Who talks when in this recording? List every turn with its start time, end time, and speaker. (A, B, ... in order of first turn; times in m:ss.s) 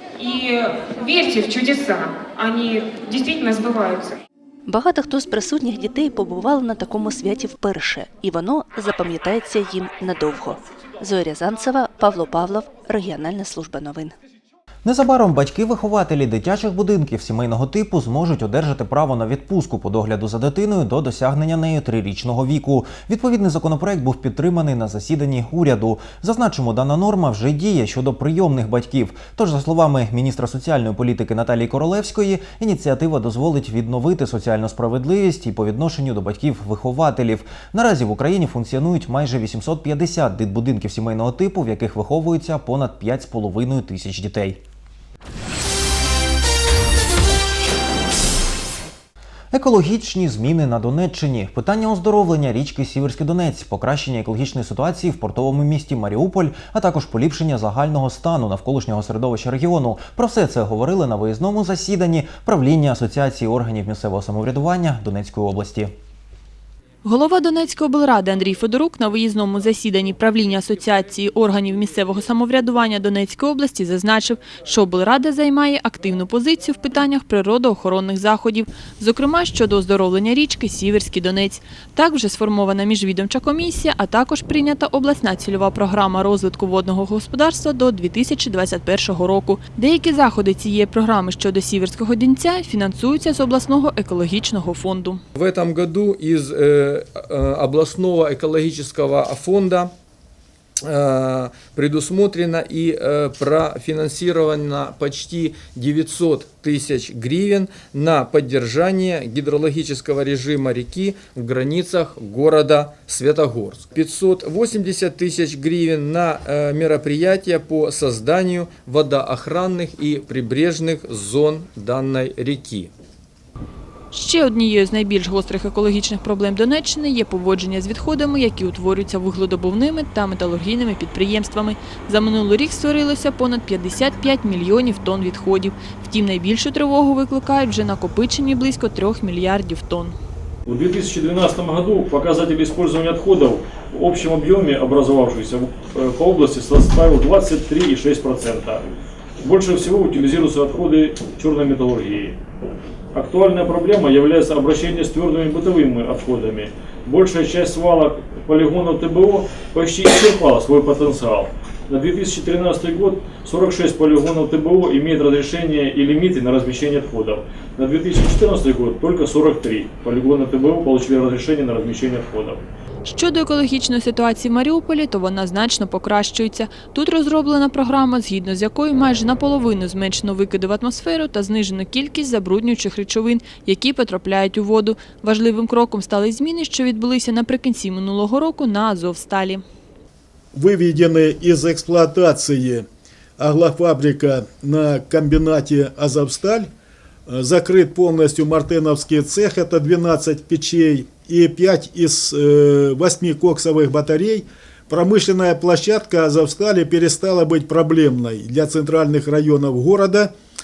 0:00.2-0:04.2 A
0:04.6-0:14.1 B
0:14.8-0:44.6 C
0:49.5-1:05.9 C
1:07.0-1:35.2 D
1:35.4-1:39.9 E
1:40.8-2:02.9 E
2:04.1-2:20.1 D
2:20.6-2:32.4 F
2:33.1-2:52.6 F
2:53.0-3:09.6 D
3:10.5-3:12.8 G
3:13.4-3:16.7 G
3:17.3-3:30.3 G